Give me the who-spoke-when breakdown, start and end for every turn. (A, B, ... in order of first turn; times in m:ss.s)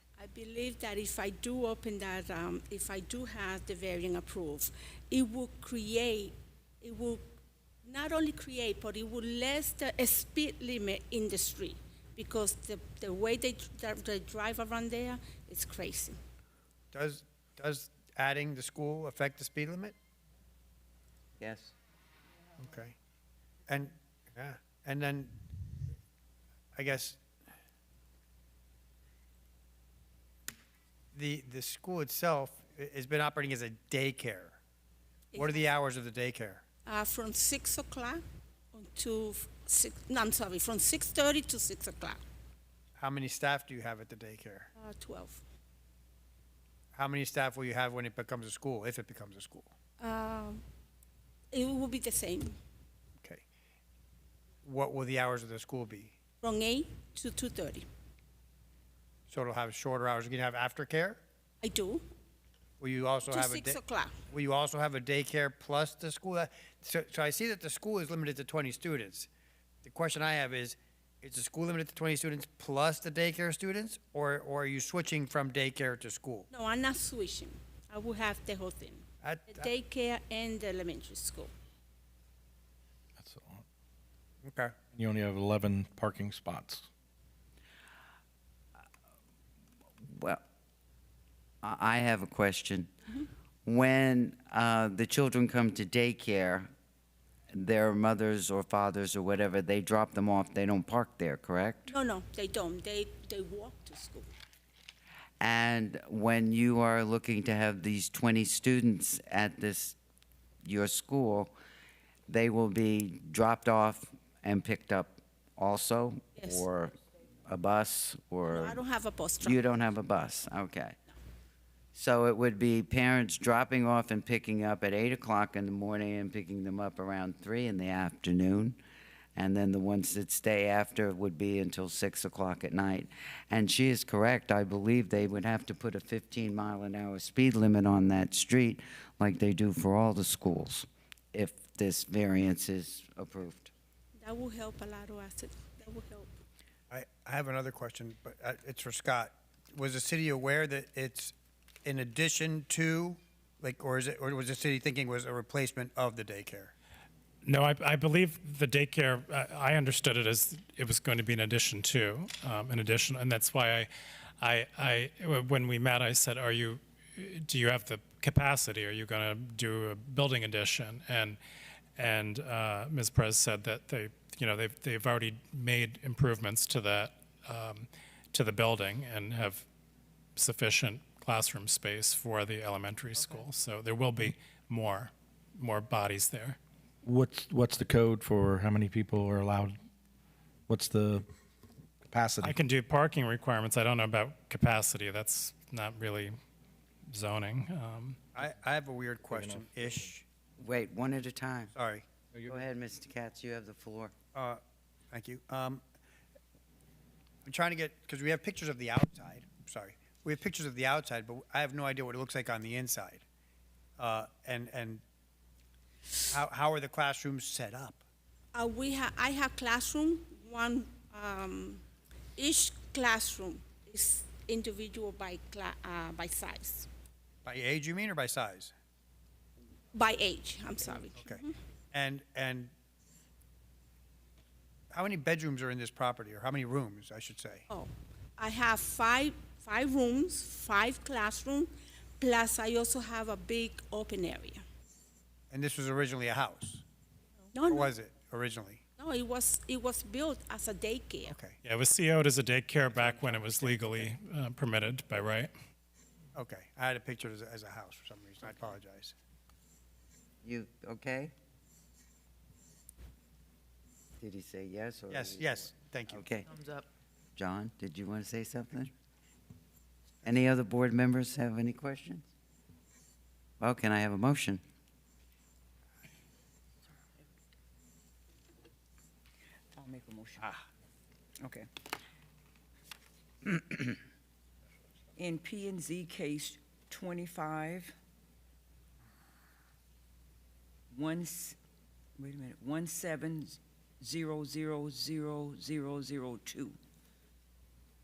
0:00.2-0:07.2 A
0:07.8-0:16.2 A
0:16.9-0:20.0 B
0:21.4-0:21.7 C
0:22.6-0:23.0 B
0:23.7-0:25.4 B
0:26.8-0:27.2 B
0:31.1-0:34.6 B
0:35.3-0:35.6 A
0:35.4-0:36.6 B
0:36.8-0:42.2 A
0:43.0-0:44.7 B
0:44.8-0:45.4 A
0:46.9-0:49.7 B
0:50.0-0:50.6 A
0:51.5-0:52.6 A
0:54.6-0:56.1 B
0:56.4-0:57.9 A
0:59.3-1:01.2 B
1:01.6-1:02.0 A
1:02.8-1:09.3 B
1:03.2-1:04.2 A
1:09.8-1:16.5 B
1:16.5-1:21.5 A
1:19.2-1:19.7 B
1:23.2-1:23.6 D
1:24.4-1:24.8 B
1:24.9-1:26.9 D
1:30.0-1:30.4 C
1:31.6-1:32.9 C
1:33.6-1:36.7 C
1:37.5-1:41.9 C
1:41.9-1:44.3 A
1:45.4-1:50.0 C
1:50.6-1:51.6 C
1:52.3-1:58.8 C
1:56.4-1:56.7 A
1:58.4-1:59.6 A
1:59.4-2:01.0 C
2:02.0-2:08.8 C
2:09.4-2:23.7 C
2:24.2-2:26.4 A
2:26.9-2:31.3 B
2:31.8-2:36.7 B
2:37.4-2:43.9 E
2:44.4-2:51.4 E
2:52.0-2:59.7 E
3:00.4-3:06.6 E
3:07.0-3:09.8 D
3:10.7-3:11.3 D
3:12.1-3:12.6 D
3:12.4-3:16.4 E
3:17.1-3:18.2 E
3:18.4-3:20.2 B
3:19.3-3:20.1 D
3:20.6-3:21.7 C
3:21.8-3:22.0 B
3:22.4-3:24.1 C
3:24.3-3:24.6 B
3:25.1-3:25.8 B
3:27.5-3:33.2 B
3:34.0-3:35.0 B
3:36.3-3:38.0 B
3:38.5-3:41.8 A
3:42.4-3:46.9 A
3:47.5-3:48.7 B
3:49.9-3:51.6 A
3:51.2-3:52.7 B
3:54.9-3:57.7 B
3:57.7-4:04.6 A
4:05.5-4:06.8 B
4:07.5-4:07.9 A
4:07.7-4:08.8 B
4:09.0-4:11.4 A
4:11.3-4:11.6 B
4:11.6-4:15.5 E
4:13.0-4:13.8 B
4:16.4-4:19.2 B
4:20.4-4:21.3 C
4:24.2-4:26.5 C
4:25.1-4:26.3 B
4:27.4-4:28.9 C
4:30.2-4:32.3 C
4:33.6-4:34.6 C
4:39.8-4:40.6 F
4:41.4-4:41.7 F
4:45.2-4:48.0 F
4:50.9-4:51.6 F
4:52.2-4:56.8 F